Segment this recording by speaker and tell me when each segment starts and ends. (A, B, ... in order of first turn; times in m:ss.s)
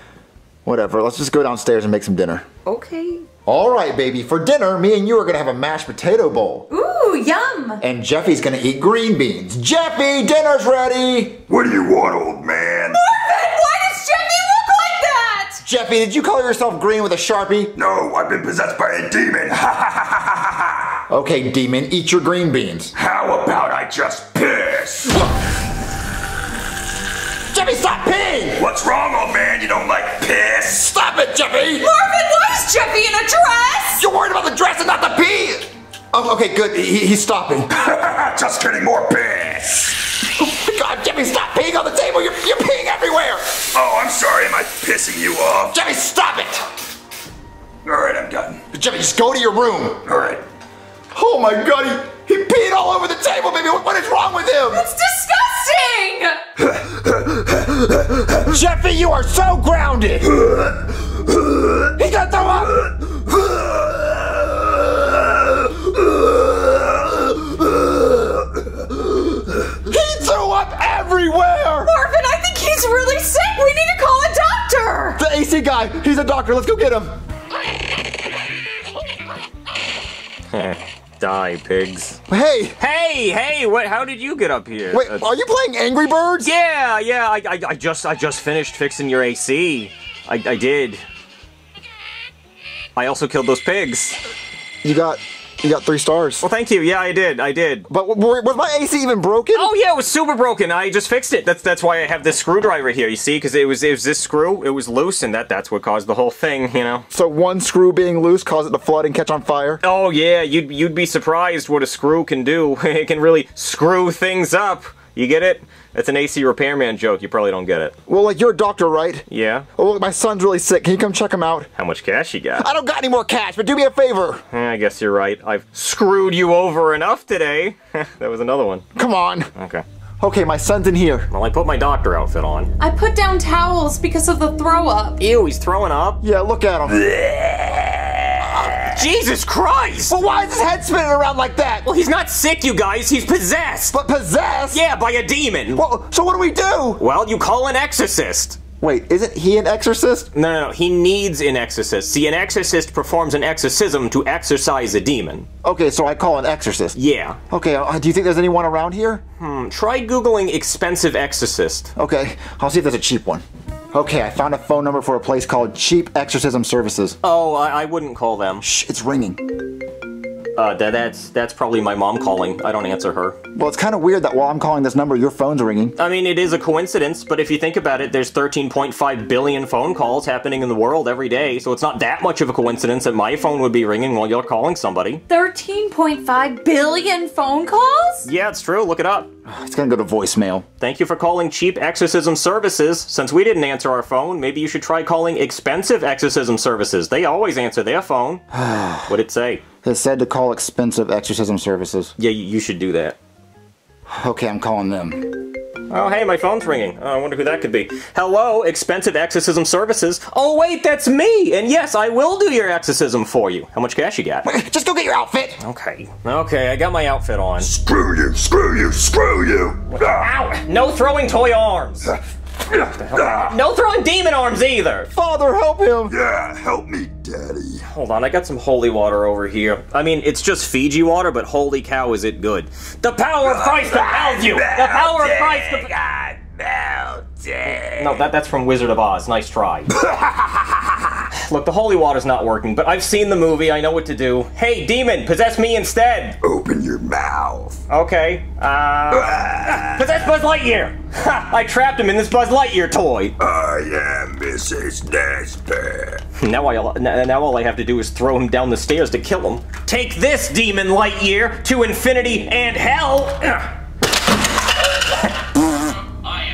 0:00.6-0:02.4 A
0:02.6-0:03.2 B
0:03.4-0:06.7 A
0:06.7-0:07.8 B
0:07.8-0:11.4 A
0:11.5-0:13.0 C
0:12.9-0:15.6 B
0:15.6-0:17.7 A
0:17.8-0:20.7 C
0:21.1-0:22.9 A
0:22.9-0:25.2 C
0:27.5-0:28.6 A
0:28.6-0:30.9 C
0:30.8-0:31.9 A
0:31.8-0:34.0 B
0:34.0-0:37.7 A
0:37.8-0:40.0 C
0:40.4-0:43.6 A
0:43.7-0:45.8 C
0:45.7-0:46.6 A
0:47.8-0:48.6 C
0:48.7-0:50.0 A
0:50.0-0:50.4 C
0:51.1-0:54.8 A
0:54.7-0:56.4 B
0:58.3-1:00.3 A
1:01.9-1:03.0 A
1:09.6-1:11.9 A
1:11.8-1:15.2 B
1:15.2-1:17.2 A
1:20.5-1:22.2 D
1:22.3-1:22.8 A
1:22.8-1:25.2 D
1:24.9-1:26.5 A
1:26.4-1:31.0 D
1:33.0-1:34.2 D
1:34.8-1:36.4 A
1:36.4-1:37.9 D
1:37.9-1:39.7 A
1:39.5-1:47.0 D
1:47.1-1:49.8 A
1:49.8-1:57.9 D
1:58.1-2:01.7 A
1:59.3-1:59.6 D
2:01.8-2:02.7 D
2:02.6-2:04.4 A
2:04.5-2:08.8 D
2:08.9-2:09.5 A
2:09.6-2:09.8 D
2:10.2-2:11.3 A
2:11.3-2:12.7 D
2:12.8-2:15.2 B
2:15.2-2:16.2 D
2:16.2-2:17.2 A
2:17.1-2:18.1 D
2:18.4-2:19.0 A
2:18.8-2:20.1 D
2:20.1-2:21.8 A
2:21.8-2:24.0 D
2:23.9-2:24.8 A
2:24.7-2:25.8 D
2:25.7-2:27.0 A
2:27.0-2:28.6 D
2:28.8-2:30.3 A
2:30.3-2:35.5 D
2:35.6-2:37.0 A
2:36.9-2:37.4 D
2:37.5-2:39.2 A
2:39.4-2:41.9 D
2:42.0-2:47.2 A
2:47.2-2:48.6 D
2:48.6-2:49.4 A
2:50.6-2:53.4 D
2:53.5-2:56.0 A
2:56.0-3:05.2 D
3:05.3-3:08.3 B
3:08.2-3:09.3 D
3:09.4-3:10.6 A
3:10.8-3:19.6 D
3:18.6-3:19.1 A
3:19.8-3:22.1 A
3:22.2-3:23.2 D
3:24.1-3:25.5 A
3:25.9-3:34.5 D
3:34.4-3:35.6 A
3:35.6-3:37.7 D
3:37.6-3:40.3 C
3:39.9-3:42.2 D
3:42.7-3:45.1 D
3:42.7-3:43.5 C
3:45.1-3:46.1 A
3:46.1-3:47.8 C
3:47.9-3:56.1 D
3:53.4-3:57.9 C
3:57.6-4:00.1 D
4:01.0-4:06.4 D
4:06.4-4:07.8 C
4:07.9-4:13.3 D
4:13.4-4:16.2 C
4:16.4-4:23.8 D